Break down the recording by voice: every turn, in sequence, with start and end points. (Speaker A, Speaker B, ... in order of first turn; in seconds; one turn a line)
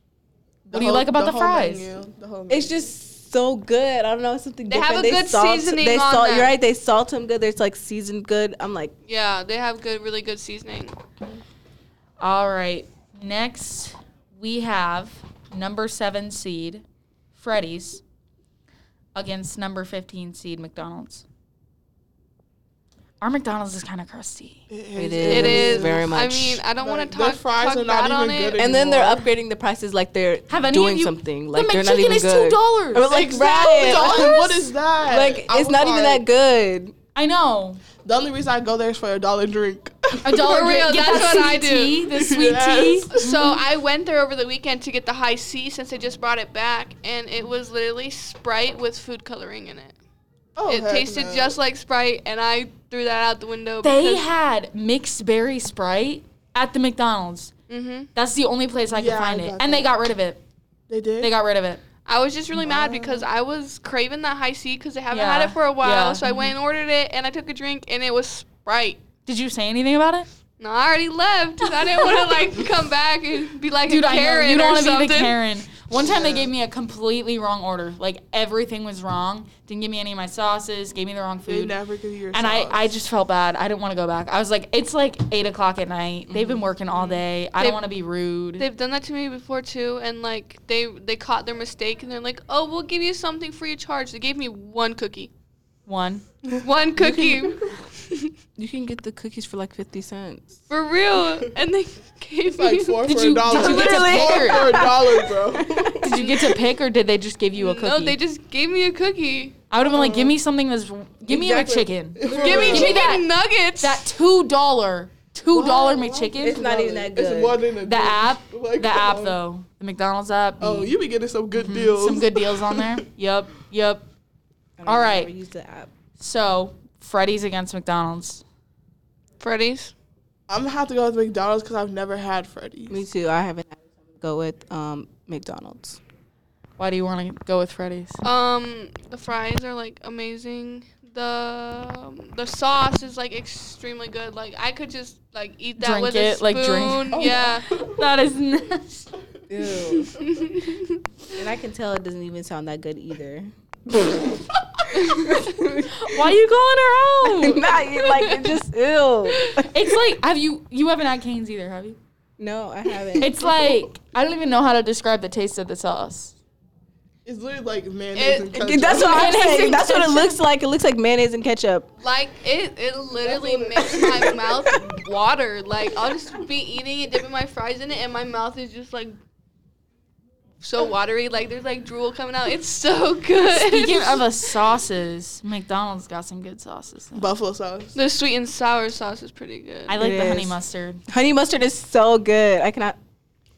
Speaker A: 0.7-2.8
Speaker B: 0.7-1.9
Speaker C: 2.5-8.9
Speaker D: 4.7-6.5
Speaker D: 9.1-10.9
Speaker B: 12.2-18.0
Speaker B: 19.1-21.2
Speaker B: 23.2-24.7
Speaker A: 24.7-26.1
Speaker C: 24.9-26.6
Speaker D: 25.2-28.6
Speaker A: 26.7-29.3
Speaker C: 28.6-36.9
Speaker B: 30.5-33.2
Speaker A: 33.1-36.2
Speaker B: 37.1-37.8
Speaker A: 38.0-40.8
Speaker B: 40.2-43.5
Speaker D: 40.4-42.0
Speaker A: 42.1-43.4
Speaker D: 43.1-50.0
Speaker A: 50.5-51.6
Speaker D: 50.7-54.2
Speaker B: 53.8-57.5
Speaker D: 57.7-58.1
Speaker B: 58.1-60.4
Speaker A: 58.9-59.9
Speaker A: 60.9-61.3
Speaker B: 61.2-61.8
Speaker D: 62.0-69.0
Speaker A: 62.6-63.3
Speaker B: 65.1-66.5
Speaker B: 69.2-70.3
Speaker D: 70.6-75.4
Speaker B: 73.9-81.8
Speaker A: 76.0-76.5
Speaker A: 81.5-82.9
Speaker B: 82.3-88.7
Speaker C: 86.3-86.6
Speaker D: 86.9-87.8
Speaker D: 88.6-95.3
Speaker B: 95.9-96.2
Speaker D: 96.6-98.3
Speaker C: 97.0-97.4
Speaker C: 98.6-100.6
Speaker D: 100.7-103.1
Speaker A: 102.5-106.0
Speaker B: 103.0-104.9
Speaker C: 103.5-106.4
Speaker B: 106.0-108.2
Speaker D: 107.6-109.6
Speaker B: 109.7-113.3
Speaker A: 109.8-110.3
Speaker C: 111.3-111.8
Speaker A: 111.4-113.1
Speaker D: 112.2-114.0
Speaker B: 113.8-116.7
Speaker A: 115.5-119.4
Speaker C: 116.4-117.6
Speaker B: 117.8-121.0
Speaker A: 120.6-123.0
Speaker B: 121.5-124.0
Speaker C: 124.8-125.9
Speaker B: 124.8-125.3
Speaker B: 126.2-128.4
Speaker D: 129.4-129.9
Speaker A: 130.5-133.0
Speaker C: 132.9-136.0
Speaker B: 136.8-138.2
Speaker D: 138.2-147.7
Speaker B: 145.8-149.1
Speaker A: 147.1-148.0
Speaker C: 149.5-150.2
Speaker D: 150.0-151.0
Speaker C: 151.3-154.4
Speaker C: 154.9-156.2
Speaker B: 155.9-157.7
Speaker C: 157.3-159.7
Speaker D: 157.9-158.6
Speaker D: 159.3-159.7
Speaker B: 159.7-162.0
Speaker C: 162.4-163.6
Speaker B: 163.2-166.3
Speaker A: 167.2-169.6
Speaker D: 168.1-168.6
Speaker C: 168.6-171.9
Speaker B: 168.9-170.3
Speaker D: 172.0-179.2
Speaker A: 173.1-174.8
Speaker D: 180.6-184.3
Speaker B: 183.5-187.3
Speaker A: 187.1-187.9
Speaker D: 187.9-189.9
Speaker B: 189.9-191.0
Speaker C: 190.0-190.6
Speaker C: 191.1-193.0